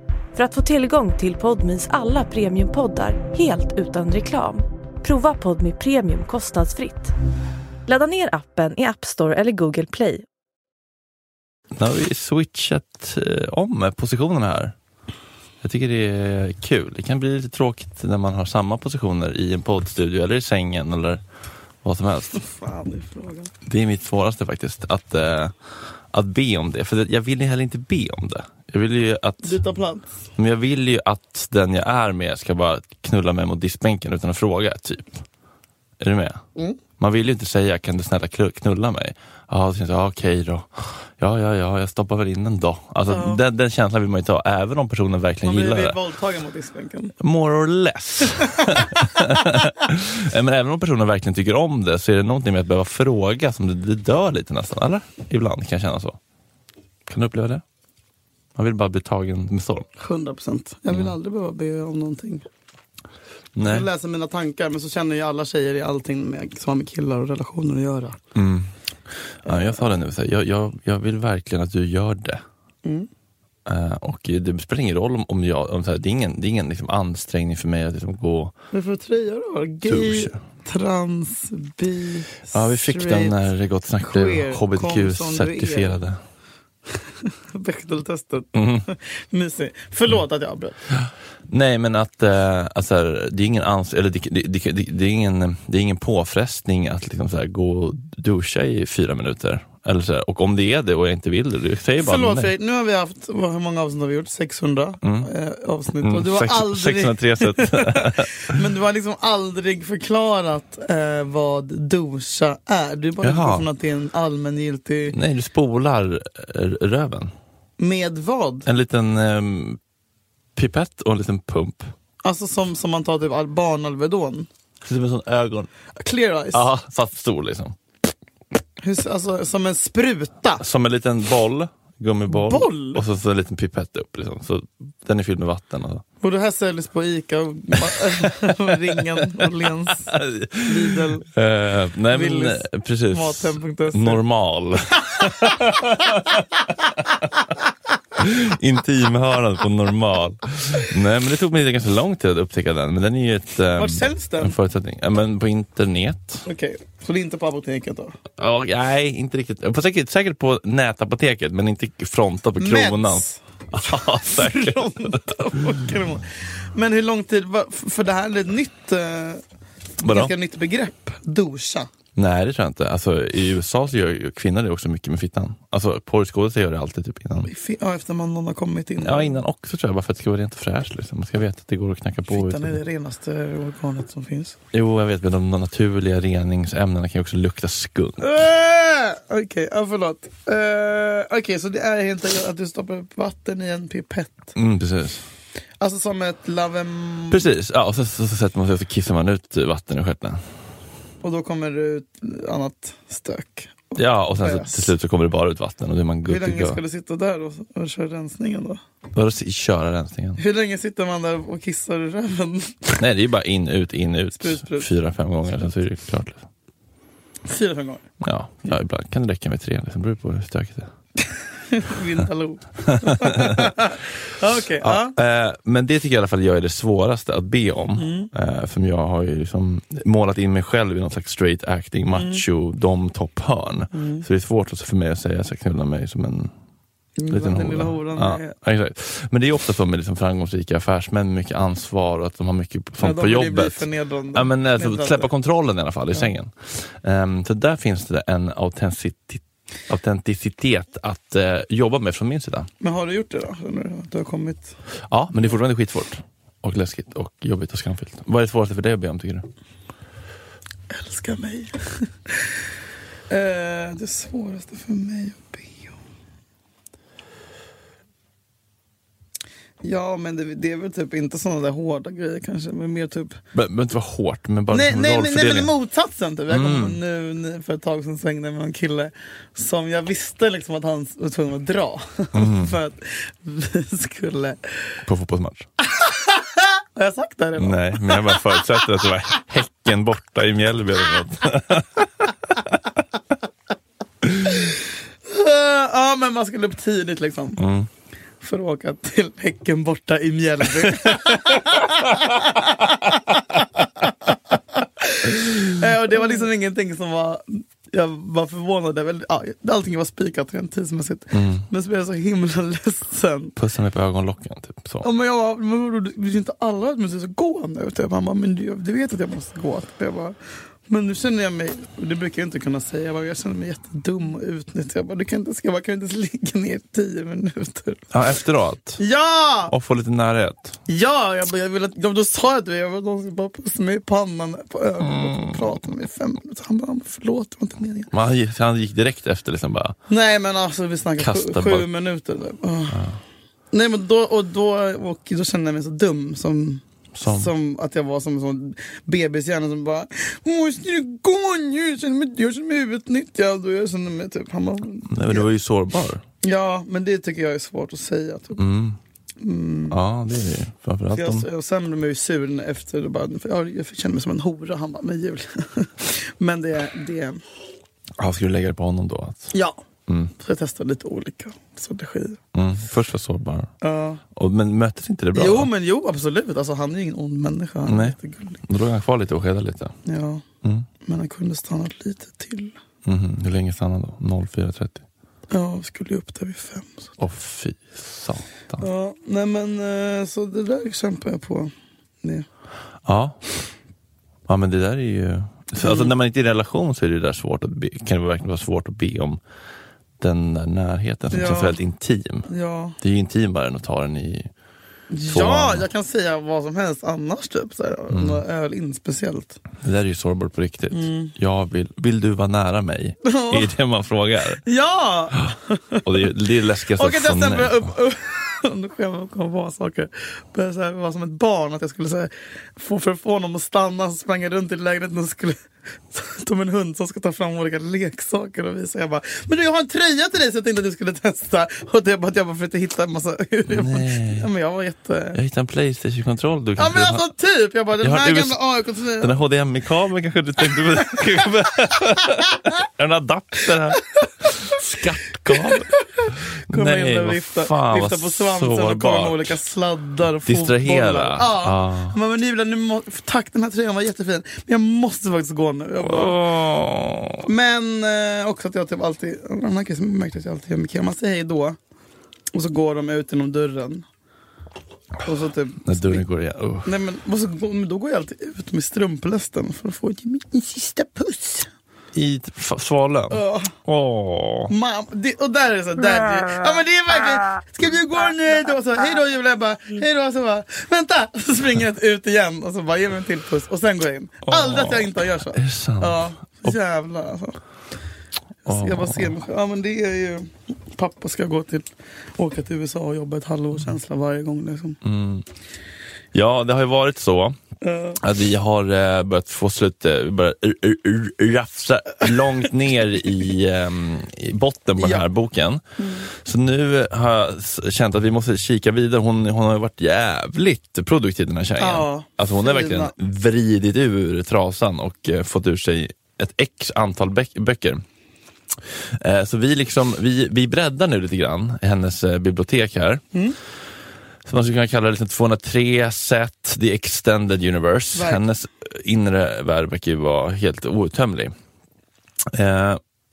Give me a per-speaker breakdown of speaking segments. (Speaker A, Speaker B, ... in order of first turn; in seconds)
Speaker A: 0.3-7.1, 7.8-10.2
Speaker B: 11.7-14.7, 15.6-21.2, 21.8-22.4, 23.6-25.5, 26.1-29.6, 30.4-35.2, 36.0-36.4, 37.0-46.0, 47.2-56.2, 57.1-57.6, 58.5-59.9, 63.5-63.9, 68.3-68.7, 69.4-72.4, 73.7-78.5, 79.8-80.4, 82.5-86.2, 88.5-88.8, 90.9-102.5, 105.0-105.3, 106.0-108.6, 113.2-113.7, 115.1-117.3, 118.7-119.8, 120.5-121.9, 124.8-125.7, 126.5-127.8, 130.6-136.0, 137.8-146.4, 148.2-156.4, 158.4-165.6, 170.0-170.3, 172.1-177.5, 179.0-182.8, 184.7-188.3, 194.6-195.2, 197.3-200.4, 203.9-206.8, 209.1-210.4, 213.0-216.4, 218.2-220.9, 222.9-223.7, 224.5-236.5, 237.3-252.7, 255.1-259.5, 273.5-275.7, 276.5-277.0, 282.3-282.8, 285.1-285.7, 287.6-292.7, 294.2-294.7, 297.6-297.9, 300.8-301.5, 311.3-311.6, 313.6-315.1, 328.1-329.0, 329.7-330.8, 335.0-335.7, 338.1-339.9, 341.2-341.9, 342.9-343.2, 347.1-347.5, 355.1-356.2, 358.6-359.0, 359.9-361.5, 368.2-369.5, 370.1-370.3, 372.5-373.7, 374.3-375.7, 377.9-379.9, 383.0-385.0, 387.2-388.8, 393.0-393.4, 394.5-399.4, 400.2-402.5, 403.0-404.5, 405.3-405.9, 408.1-408.4, 409.8-414.6, 416.0-417.9, 433.7-434.5, 435.3-437.3, 438.0-438.6, 439.2-445.9, 446.7-449.6, 450.4-452.2, 456.0-457.4, 465.8-466.9, 472.1-474.7, 484.5-486.7, 488.6-489.3, 495.0-495.4, 496.3-497.6, 498.2-518.0, 519.2-523.2, 524.5-531.5, 532.5-533.0
Speaker C: 22.4-23.5, 29.4-30.3, 43.0-43.4, 45.4-47.1, 48.5-49.2, 60.0-62.4, 63.6-68.2, 69.5-69.9, 72.8-73.1, 78.7-83.4, 84.1-86.0, 87.2-90.8, 102.0-115.2, 117.8-118.7, 122.2-124.5, 126.0-126.7, 128.8-130.6, 132.3-133.0, 136.2-141.3, 142.1-144.2, 145.1-146.2, 153.8-154.6, 156.4-158.2, 162.6-169.4, 170.0-171.9, 177.4-179.4, 182.3-184.6, 188.2-194.5, 195.8-197.4, 201.2-204.9, 206.3-208.8, 210.4-213.0, 214.4-214.9, 217.4-218.0, 221.7-225.2, 227.9-228.3, 232.1-232.4, 233.9-234.2, 237.2-238.5, 243.0-245.3, 252.8-254.8, 260.9-262.5, 263.3-265.9, 269.8-273.4, 274.7-284.9, 285.8-288.9, 294.4-297.6, 298.4-303.1, 304.8-313.6, 315.0-320.3, 320.9-328.1, 329.0-329.7, 330.9-338.1, 340.1-343.0, 343.7-355.5, 356.4-358.6, 359.4-360.0, 361.1-367.4, 370.4-372.4, 373.8-374.2, 375.3-378.6, 380.0-380.4, 381.0-382.7, 385.5-387.1, 388.8-391.7, 395.8-396.1, 401.3-401.8, 402.5-403.0, 405.1-409.6, 410.9-411.3, 413.2-413.7, 414.6-416.3, 416.9-435.4, 436.8-439.4, 445.5-456.4, 457.4-461.8, 462.5-464.1, 465.2-466.2, 466.8-471.7, 473.3-473.7, 474.7-487.6, 488.6-495.0, 497.8-498.2, 505.0-505.2, 506.0-506.3, 511.8-513.1, 528.1-528.4